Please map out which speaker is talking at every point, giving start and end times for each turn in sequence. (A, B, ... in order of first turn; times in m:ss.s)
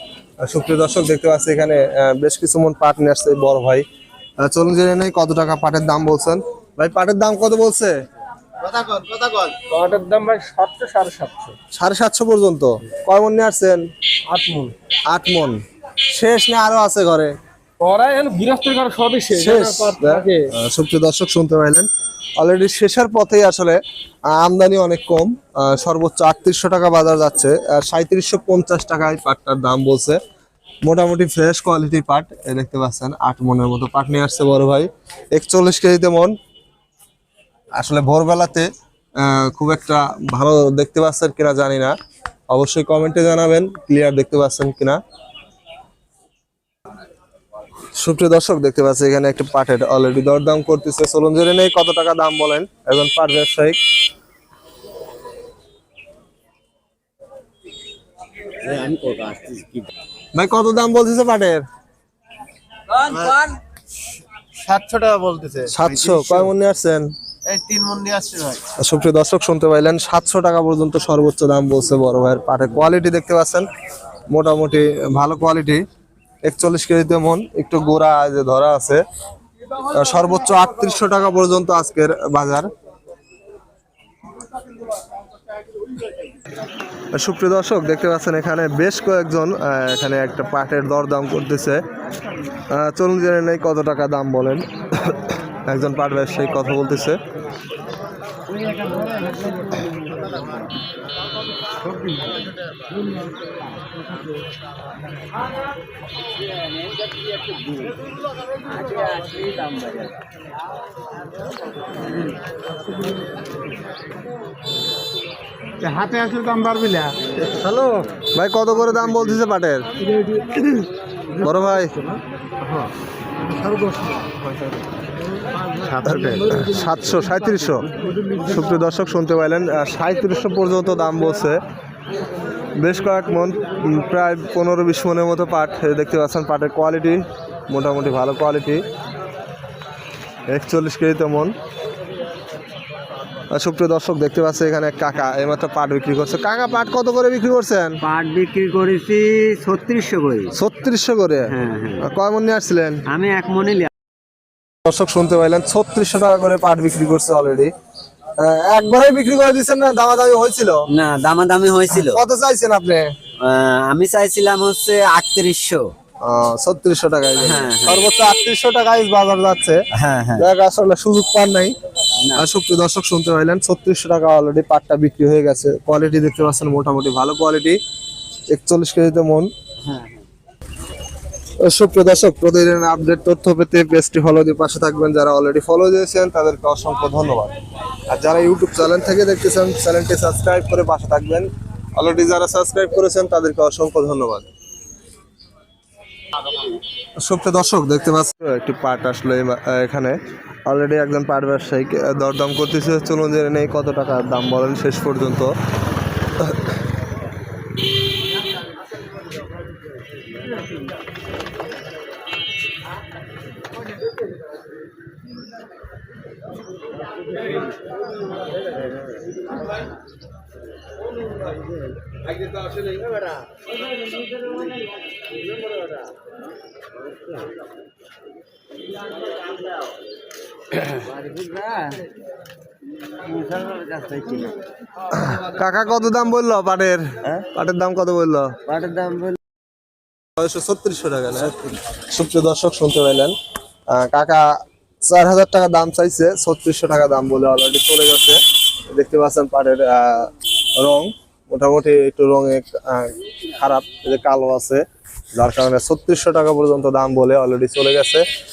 0:00.4-0:03.8 A
0:04.4-0:07.9 A
0:08.6-0:09.5 B
0:09.5-0:11.6 C
0:11.7-0:13.9 A
0:14.3-0:14.7 C
0:15.1-0:15.6 A
0:16.1-0:17.3 A
0:17.8-0:20.5 C
0:19.3-0:30.2 A
0:30.8-0:36.3 A
0:37.7-0:41.9 A
0:42.5-0:45.0 A
0:47.9-0:53.8 A
0:58.6-0:59.9 D
1:00.3-1:01.6 A
1:03.1-1:03.6 D
1:03.1-1:03.4 B
1:04.6-1:06.4 B
1:05.7-1:07.1 A
1:07.4-1:08.6 B
1:07.7-1:08.2 D
1:08.8-1:13.7 A
1:14.3-1:15.8 A
1:16.4-1:19.0 A
1:19.9-1:22.7 A
1:27.1-1:31.8 A
1:32.7-1:37.2 A
1:38.5-1:40.7 D
1:46.2-1:50.3 D
1:55.8-1:58.0 C
1:58.3-1:59.8 A
2:00.1-2:00.8 C
2:01.4-2:02.1 A
2:03.5-2:04.3 C
2:05.8-2:06.7 C
2:06.0-2:11.6 A
2:12.8-2:18.8 A
2:20.5-2:21.5 A
2:23.5-2:28.0 A
2:28.0-2:30.5 D
2:30.5-2:33.0 A
2:31.4-2:32.0 D
2:33.1-2:33.9 D
2:34.8-2:37.7 A
2:38.4-2:40.8 A
2:40.9-2:42.2 D
2:41.9-2:43.1 A
2:43.4-2:45.9 D
2:46.2-2:49.8 A
2:47.4-2:48.1 D
2:49.9-2:50.5 D
2:50.4-2:51.7 A
2:52.3-2:57.8 A
2:58.5-2:59.5 A
2:59.8-3:00.3 D
3:01.6-3:07.5 A
3:08.1-3:14.4 A
3:17.2-3:25.5 A
3:50.7-3:52.1 D
3:53.1-3:54.6 D
3:55.1-3:58.5 A
3:58.6-3:59.4 D
4:00.4-4:03.3 A
4:03.9-4:04.4 A
4:05.0-4:08.4 A
4:08.9-4:14.8 A
4:15.4-4:18.2 A